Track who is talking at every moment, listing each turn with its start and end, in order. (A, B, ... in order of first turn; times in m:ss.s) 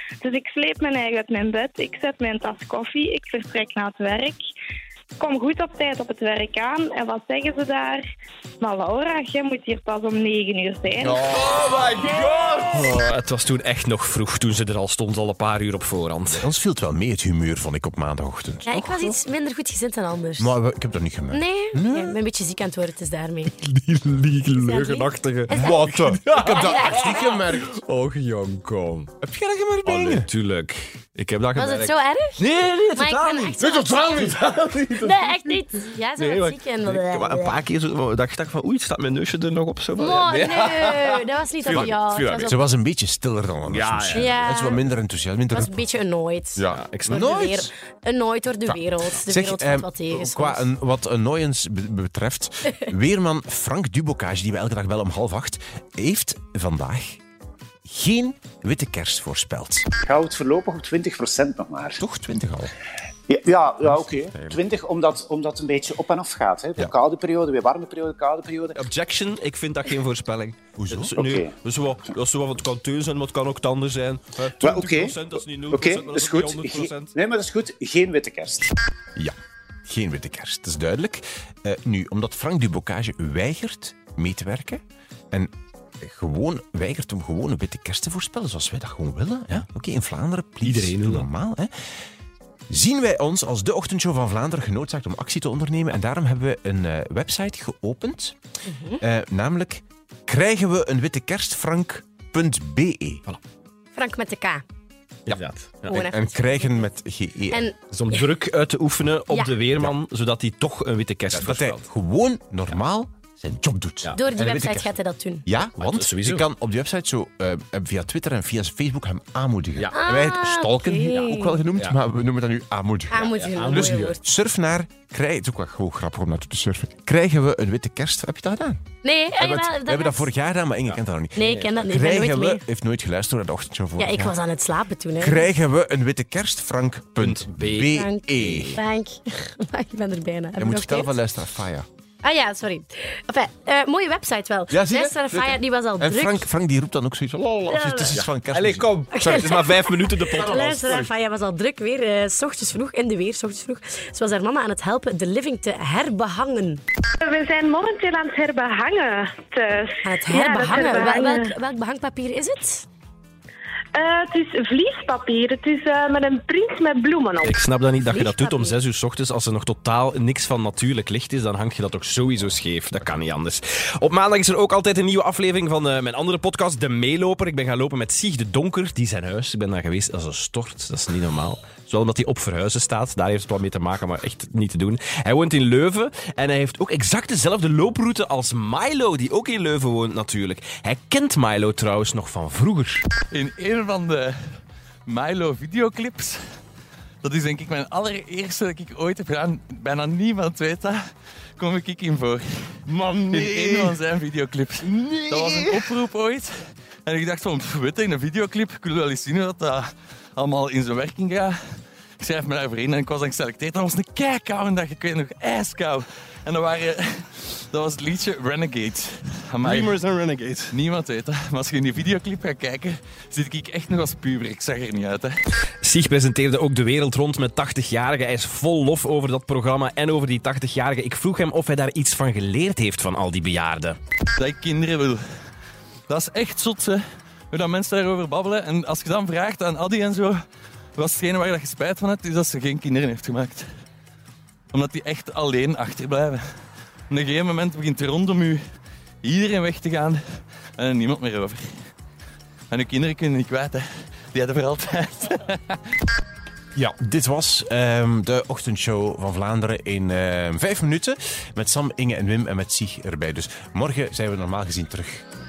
0:00.2-0:04.4 A
0:05.2-0:08.0 A
0:08.6-0:11.3 A
0:11.0-0:16.4 B
0:16.3-0:19.2 C
0:18.7-0:20.6 D
0:20.4-0:22.2 C
0:21.3-0:23.5 D
0:23.6-0:29.1 B
0:24.6-0:25.9 D
0:25.5-0:27.7 C
0:29.2-0:30.3 C
0:29.9-0:35.5 B
0:31.6-0:34.1 D
0:35.0-0:37.6 D
0:36.2-0:42.5 B
0:40.0-0:42.6 D
0:42.4-0:45.9 C
0:43.7-0:44.3 B
0:44.1-0:44.8 D
0:45.5-0:50.7 D
0:46.6-0:47.7 C
0:46.6-0:47.3 B
0:48.7-0:57.2 C
0:57.9-0:59.9 C
1:00.0-1:02.0 E
1:02.0-1:02.8 C
1:03.3-1:08.8 E
1:08.8-1:17.2 B
1:10.8-1:11.2 C
1:11.2-1:11.5 E
1:14.6-1:18.8 E
1:19.2-1:31.7 C
1:30.6-1:31.3 B
1:32.7-1:38.4 C
1:38.7-1:39.0 D
1:39.0-1:43.2 C
1:43.9-1:44.6 D
1:45.3-1:47.7 C
1:45.3-1:46.0 B
1:45.9-1:46.3 D
1:47.5-1:48.3 D
1:47.9-1:51.8 B
1:51.3-2:08.8 C
1:54.2-1:55.5 D
1:55.8-1:56.4 B
1:59.9-2:01.6 D
2:03.1-2:04.2 D
2:03.2-2:04.1 B
2:09.0-2:10.3 D
2:09.4-2:14.4 C
2:10.9-2:11.8 B
2:11.4-2:12.6 D
2:14.0-2:15.5 D
2:15.2-2:18.8 C
2:17.2-2:18.8 B
2:18.0-2:21.2 D
2:20.6-2:21.9 C
2:22.2-2:26.4 D
2:24.7-2:29.6 C
2:27.7-2:28.1 D
2:28.2-2:31.0 B
2:29.1-2:36.8 D
2:37.2-2:41.5 F
2:40.0-2:42.9 D
2:43.9-2:47.5 F
2:47.4-3:13.1 B
2:48.0-2:48.8 D
3:13.3-3:14.3 G
3:15.1-3:16.4 G
3:17.2-3:21.0 G
3:21.6-3:26.5 G
3:23.1-3:23.6 B
3:27.1-3:29.8 G
3:30.4-3:31.5 G
3:32.2-3:40.0 G
3:39.6-3:40.7 B
3:40.7-3:45.4 G
3:45.8-3:54.0 B
3:54.4-3:55.2 G
3:56.1-4:00.4 G
4:01.0-4:03.7 G
4:04.7-4:06.4 G
4:07.1-4:08.6 G
4:09.2-4:10.2 G
4:10.8-4:11.7 G
4:12.7-4:15.9 G
4:16.8-4:25.2 C